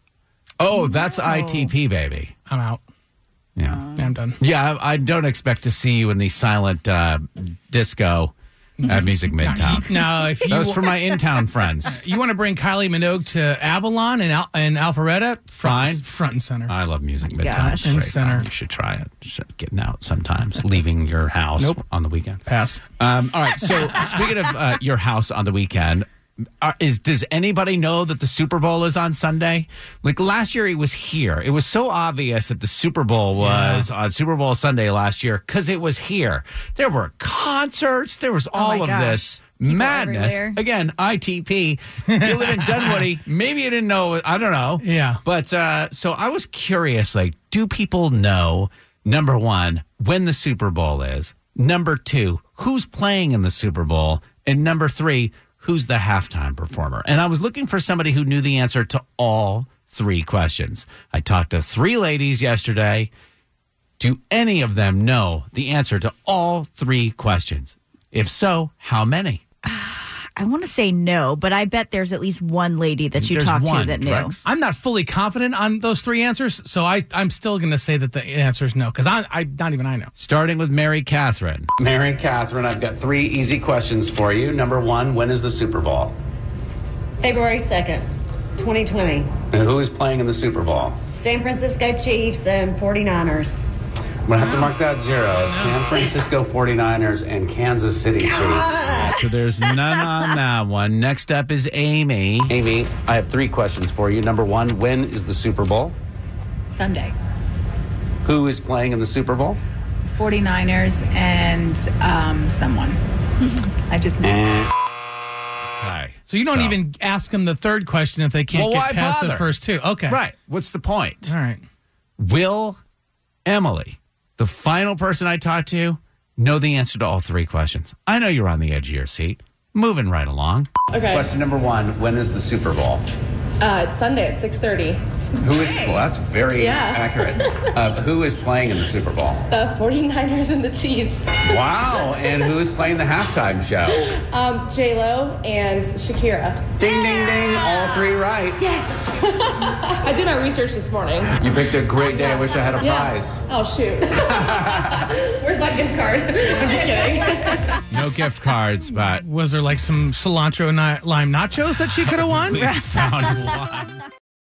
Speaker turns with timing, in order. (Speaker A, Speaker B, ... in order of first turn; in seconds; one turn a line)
Speaker A: 0.6-2.3
Speaker B: 1.3-1.7
Speaker C: 2.5-2.8
Speaker A: 3.5-3.9
Speaker C: 3.9-4.4
Speaker A: 4.4-8.3
Speaker C: 8.8-10.9
Speaker A: 8.8-12.0
Speaker C: 11.9-16.7
Speaker A: 15.6-16.1
Speaker A: 16.7-22.4
Speaker B: 17.4-17.8
Speaker C: 17.7-18.5
Speaker C: 22.4-22.8
Speaker A: 23.0-26.1
Speaker A: 26.6-63.1
Speaker C: 33.4-33.9
Speaker B: 38.5-40.6
Speaker C: 42.1-42.9
Speaker C: 44.8-45.2
Speaker A: 64.0-69.4
Speaker B: 69.6-74.3
Speaker A: 73.2-74.4
Speaker C: 74.4-80.1
Speaker A: 80.2-86.1
Speaker D: 87.2-89.3
Speaker A: 89.5-91.0
Speaker D: 91.1-93.5
Speaker A: 94.2-106.0
Speaker D: 98.2-99.1
Speaker E: 106.7-107.2
Speaker A: 108.2-109.6
Speaker E: 110.0-114.4
Speaker A: 114.2-114.7
Speaker A: 115.8-116.8
Speaker C: 116.3-120.2
Speaker A: 118.5-119.5
Speaker A: 120.1-121.3
Speaker C: 121.2-121.6
Speaker A: 122.2-122.8
Speaker A: 123.5-133.0
Speaker F: 130.9-131.3
Speaker F: 133.6-135.0
Speaker A: 135.4-139.5
Speaker F: 136.6-137.1
Speaker F: 139.5-141.6
Speaker A: 141.4-144.1
Speaker F: 143.9-146.7
Speaker A: 146.8-148.6
Speaker F: 148.6-151.3
Speaker A: 151.4-153.4
Speaker F: 152.8-157.8
Speaker A: 154.3-155.0
Speaker A: 157.9-159.2
Speaker C: 159.1-162.7
Speaker A: 162.0-164.0